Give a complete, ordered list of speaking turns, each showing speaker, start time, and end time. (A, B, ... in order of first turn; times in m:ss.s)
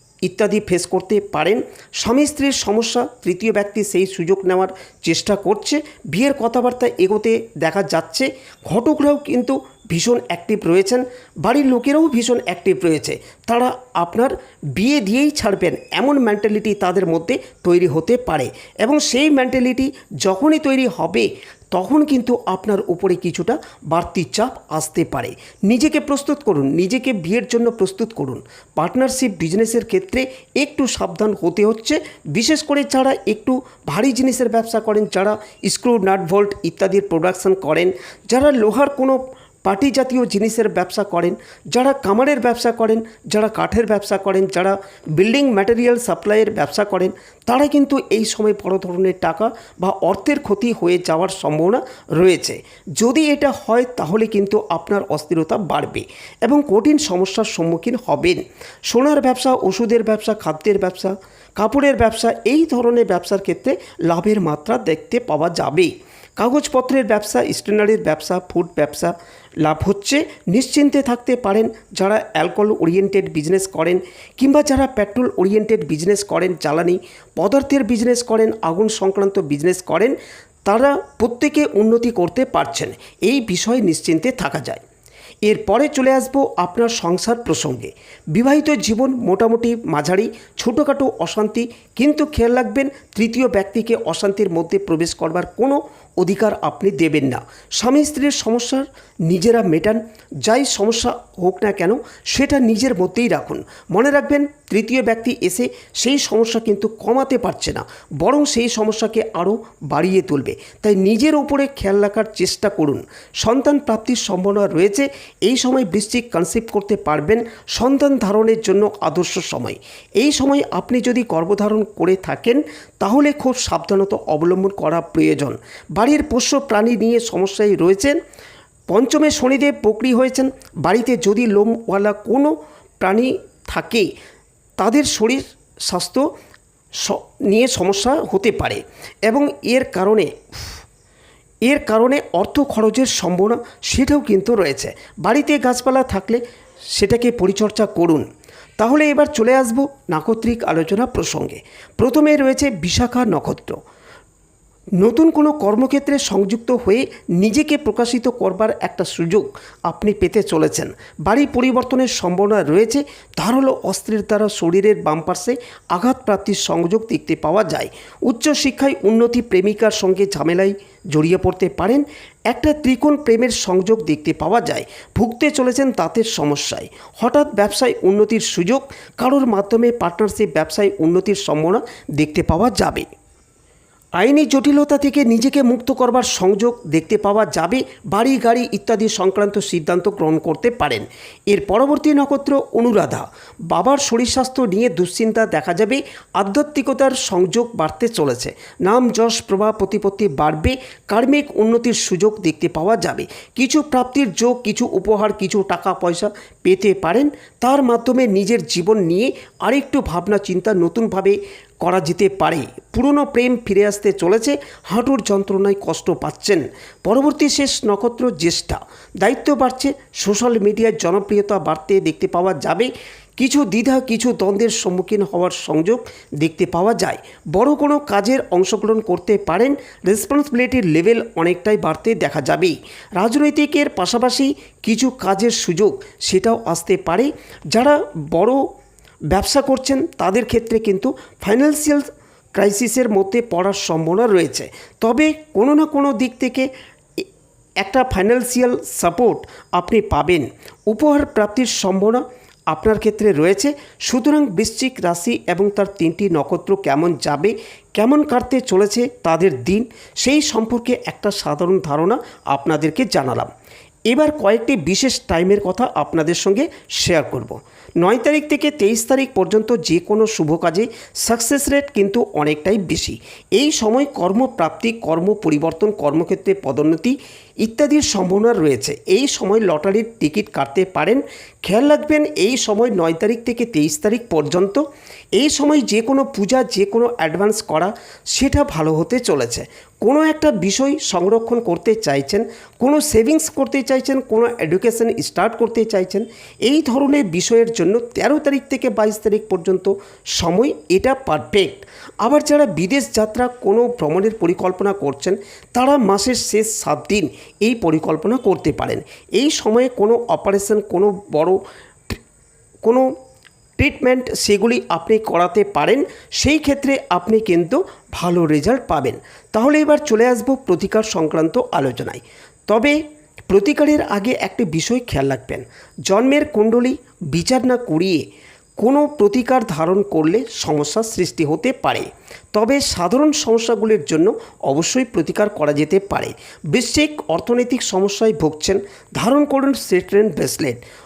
0:00.2-1:24.8 A
1:25.4-2:08.2 A
2:08.9-2:14.1 A
2:14.8-2:16.2 A
2:17.0-2:20.7 A
2:21.6-2:26.4 A
2:26.9-2:28.2 A
2:28.8-2:33.8 A
2:35.0-3:03.1 A
3:04.2-3:58.6 A
3:59.3-4:06.7 A
4:07.8-4:23.5 A
4:24.1-4:44.8 A
4:45.4-5:11.6 A
5:12.8-5:13.1 A
5:13.8-5:23.0 A
5:23.5-5:28.2 A
5:28.8-5:40.8 A